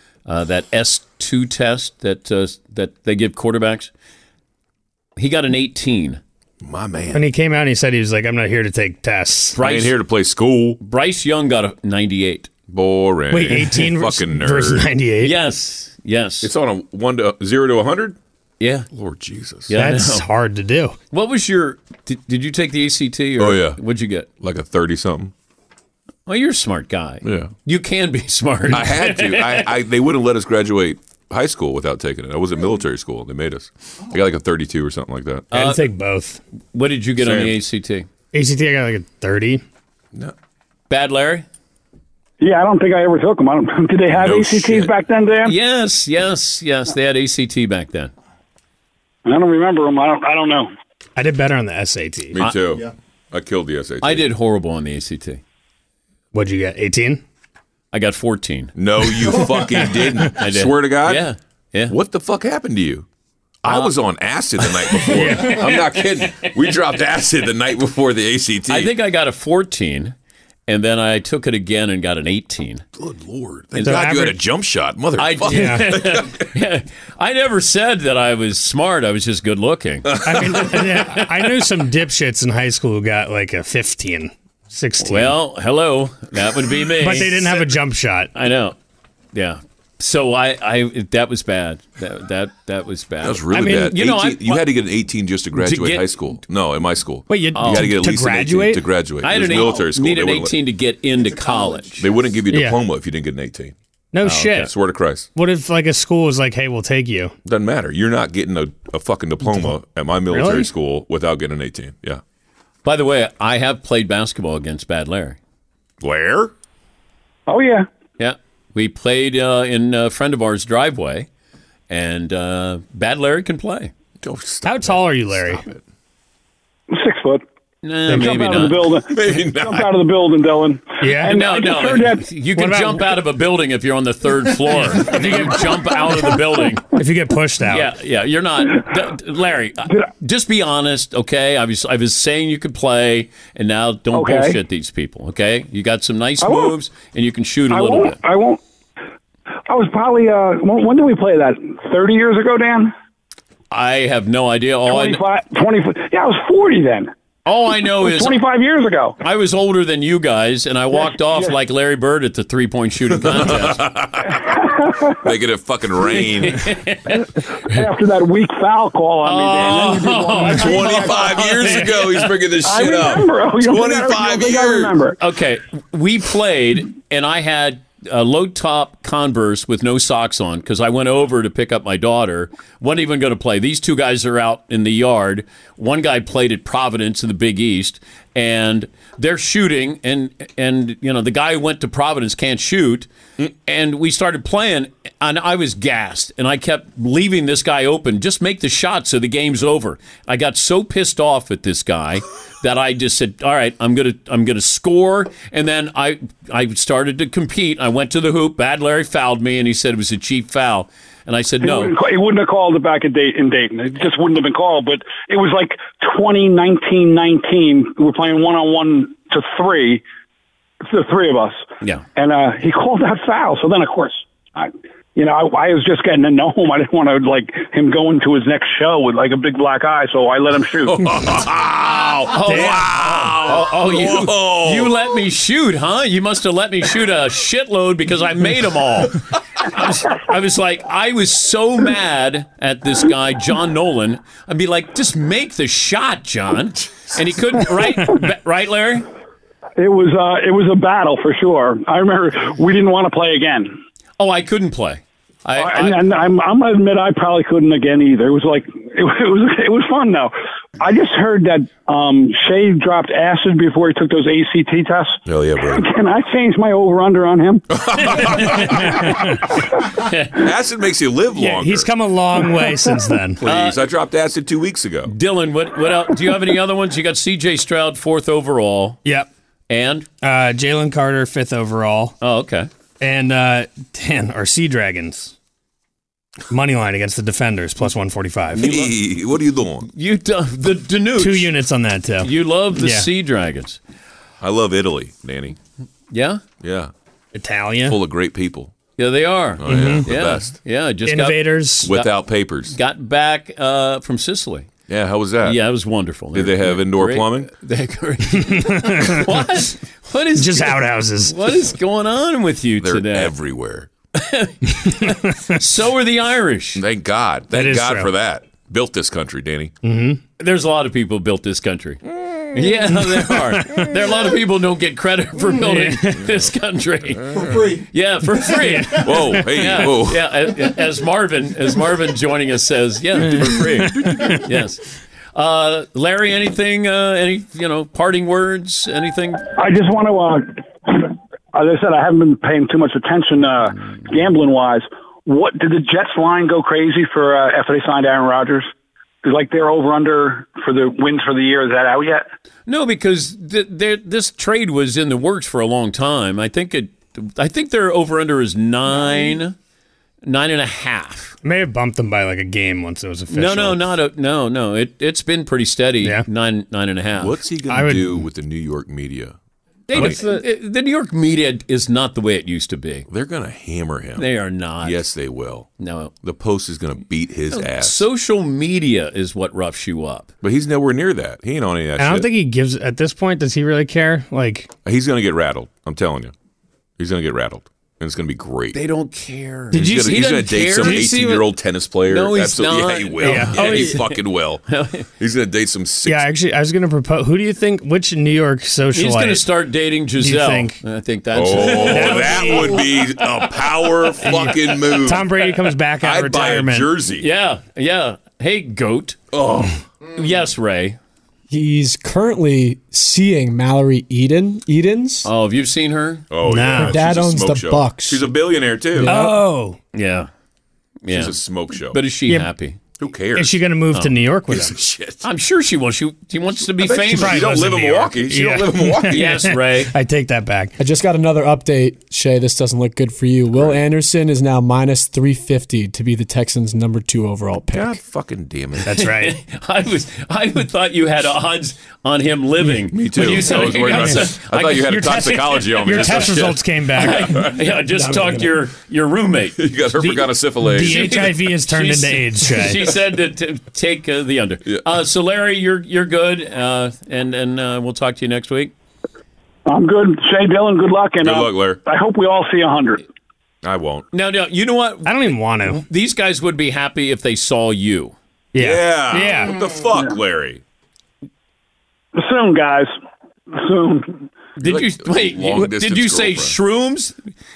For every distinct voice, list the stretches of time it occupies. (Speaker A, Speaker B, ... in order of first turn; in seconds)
Speaker A: 0.3-3.9, 5.2-6.2, 9.6-9.9, 10.8-12.5, 15.2-16.5, 18.6-18.9, 19.7-20.3, 21.1-24.3, 26.3-29.7, 35.5-35.9, 36.7-38.1, 40.9-41.4, 45.4-48.1, 54.0-55.4, 57.9-58.8, 60.3-61.9, 63.6-63.9, 64.6-66.8, 68.7-70.1, 70.7-72.8, 73.7-74.1, 75.2-80.4, 85.0-87.7, 88.3-88.8, 89.3-94.7, 95.6-96.1, 97.5-98.0, 99.2-102.1, 104.2-104.7, 112.8-115.4, 118.2-121.3, 121.9-123.9, 127.8-128.9, 131.3-136.8, 137.7-148.2, 153.7-155.2, 157.4-158.4, 159.2-163.9, 166.0-167.3, 169.2-172.4, 175.2-211.9, 232.3-249.1, 254.2-256.1, 268.1-269.0, 270.0-270.4, 273.4-273.9, 275.1-279.0, 279.7-280.1, 282.2-282.7, 288.5-289.0, 289.9-291.6, 292.2-293.8, 296.1-296.4, 299.0-302.1, 302.7-304.7, 305.4-313.3, 314.1-316.8, 320.4-322.0, 322.5-339.5, 352.7-359.6, 360.2-361.4, 363.3-367.4, 369.9-373.1, 374.2-375.0, 375.8-376.1, 377.5-380.3, 388.7-391.4, 392.1-394.2, 394.7-395.1, 398.9-404.5, 407.2-409.2, 410.1-411.0, 415.2-416.3, 419.9-420.3, 421.0-421.4, 421.9-422.8, 425.2-428.1, 429.1-429.9, 438.9-444.9, 445.8-449.6, 450.7-458.7, 464.1-468.1, 474.6-477.1
Speaker B: 6.6-7.3, 9.6-10.8, 12.7-14.9, 16.4-18.2, 18.9-19.7, 23.4-23.8, 24.4-25.3, 27.2-27.5, 28.7-35.5, 37.2-37.6, 44.1-44.9, 52.3-54.3, 58.8-61.3, 61.9-63.1, 63.6-68.9, 73.0-76.5, 80.1-81.0, 93.2-100.5, 102.0-103.8, 104.6-105.3, 107.4-112.2, 116.0-116.5, 124.2-125.8, 129.1-129.9, 163.2-164.6, 165.2-166.8, 170.4-175.0, 230.8-234.9, 265.3-265.9, 267.7-269.2, 270.3-271.9, 273.4-275.1, 288.5-289.9, 294.4-295.6, 296.6-296.9, 297.8-298.8, 299.6-300.6, 301.9-302.8, 304.9-305.6, 306.3-307.5, 312.8-313.9, 316.8-319.7, 322.1-323.2, 327.2-327.8, 328.9-330.3, 367.1-369.4, 369.9-370.2, 373.1-374.3, 374.8-375.7, 376.2-378.1, 380.4-382.3, 384.9-386.3, 387.0-388.8, 389.7-394.7, 395.2-396.3, 401.3-407.3, 409.3-409.8, 416.3-419.1, 421.1-422.0, 423.0-423.6, 424.5-425.2, 426.7-429.4, 433.5-433.9, 437.7-439.0, 442.9-447.6, 449.6-451.3, 461.2-461.8, 463.6-464.1, 468.6-470.6, 474.6-476.6
Speaker C: 7.1-9.6, 13.3-15.3, 19.7-20.9, 35.5-36.4, 38.3-39.6, 51.1-52.4, 56.3-57.2, 65.1-65.8, 73.8-74.4, 75.5-75.9, 80.2-85.4, 87.0-88.3, 93.5-93.9, 97.3-98.8, 102.5-102.8, 104.1-104.7, 105.3-107.3, 109.4-109.8, 110.3-110.7, 124.6-125.6, 128.1-128.7, 131.0-131.4, 132.6-133.2, 134.9-135.7, 136.9-137.9, 232.4-232.9, 268.6-269.4, 271.3-273.4, 280.2-282.1, 283.0-285.3, 286.5-288.7, 291.2-293.1, 297.3-298.0, 299.6-300.1, 301.1-301.9, 308.3-309.6, 310.3-311.6, 314.9-315.6, 317.5-318.1, 319.8-320.2, 323.6-323.9, 325.4-326.2, 328.8-329.4, 333.3-334.4, 361.4-363.9, 366.0-366.3, 367.6-368.2, 369.9-370.4, 382.0-384.7, 389.7-391.4, 393.2-394.2, 396.1-399.5, 400.2-400.8, 401.6-403.0, 404.2-406.9, 416.4-417.1, 419.0-419.8, 422.3-422.5, 423.4-424.8, 427.1-430.8, 438.9-439.4, 443.2-448.5, 449.9-452.8, 465.1-465.8, 468.6-469.6
Speaker D: 42.4-45.5, 49.3-50.7, 117.5-117.9, 126.9-127.4, 128.1-132.3, 144.1-144.6, 146.4-146.8, 147.7-148.6, 149.7-152.9, 154.9-157.1, 158.0-159.2, 160.9-161.5, 164.4-165.2, 167.1-171.4, 172.6-175.2, 211.6-220.0, 220.8-231.1, 249.8-253.8, 255.6-267.6, 339.6-348.7, 349.2-352.3, 459.6-463.1, 472.1-472.9, 473.5-474.2
Speaker E: 411.5-415.3, 416.8-418.3, 430.8-438.0